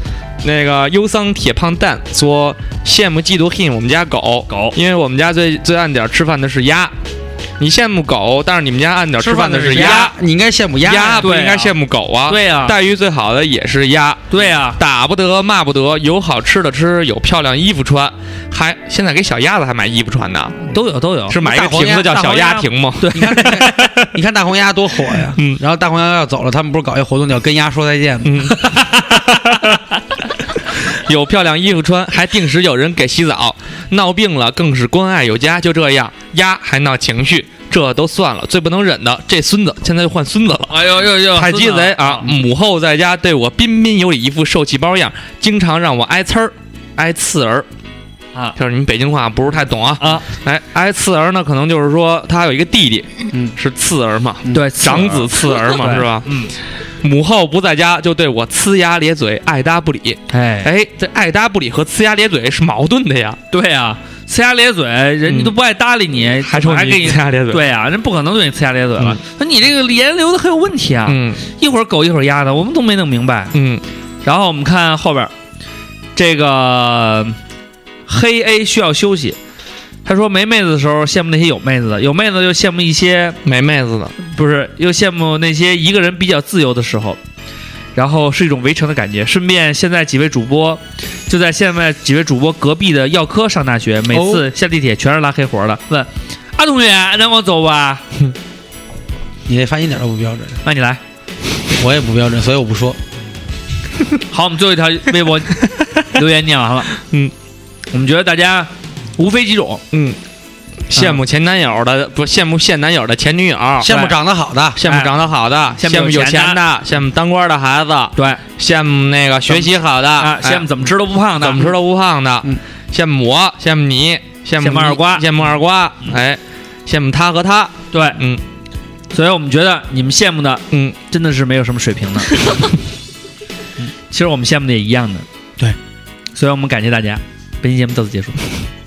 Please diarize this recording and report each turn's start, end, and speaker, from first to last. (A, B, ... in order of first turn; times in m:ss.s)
0:00.4-0:06.9 A
0:04.5-0:04.7 B
0:07.6-0:10.1 A
0:09.2-0:11.3 C
0:09.5-0:10.1 B
0:10.8-0:20.6 A
0:11.2-0:11.8 B
0:12.3-0:12.7 B
0:14.3-0:14.8 B
0:20.7-0:24.0 B
0:21.3-0:24.1 A
0:21.4-0:22.3 C
0:23.1-0:28.5 C
0:28.2-0:29.8 A
0:30.8-0:47.7 A
0:40.7-0:42.3 B
0:48.6-0:56.3 A
0:50.0-0:50.3 B
0:54.4-0:54.7 C
0:54.5-0:56.5 B
0:57.0-1:03.4 A
1:00.3-1:00.7 B
1:03.5-1:13.6 B
1:05.3-1:05.5 A
1:06.4-1:07.6 A
1:11.1-1:11.5 A
1:13.5-1:13.8 A
1:14.2-1:15.3 B
1:16.1-1:17.4 B
1:18.1-1:19.4 B
1:20.0-1:23.4 B
1:23.4-1:24.1 A
1:24.2-1:27.2 B
1:27.9-1:38.0 B
1:34.1-1:34.5 C
1:39.5-1:40.6 C
1:40.6-1:41.0 B
1:41.8-1:43.0 C
1:44.3-1:46.9 B
1:46.9-1:47.3 A
1:47.9-1:49.8 B
1:49.9-1:50.2 A
1:50.9-1:54.0 A
1:50.9-1:51.2 B
1:53.8-1:54.8 C
1:53.9-1:54.2 B
1:54.8-2:00.7 A
1:54.8-1:55.1 B
1:55.8-1:56.6 B
1:58.2-1:58.4 B
1:59.5-2:01.7 B
2:01.4-2:08.4 A
2:04.6-2:05.2 B
2:07.9-2:08.2 B
2:09.1-2:12.6 B
2:13.8-2:15.2 B
2:16.3-2:18.5 B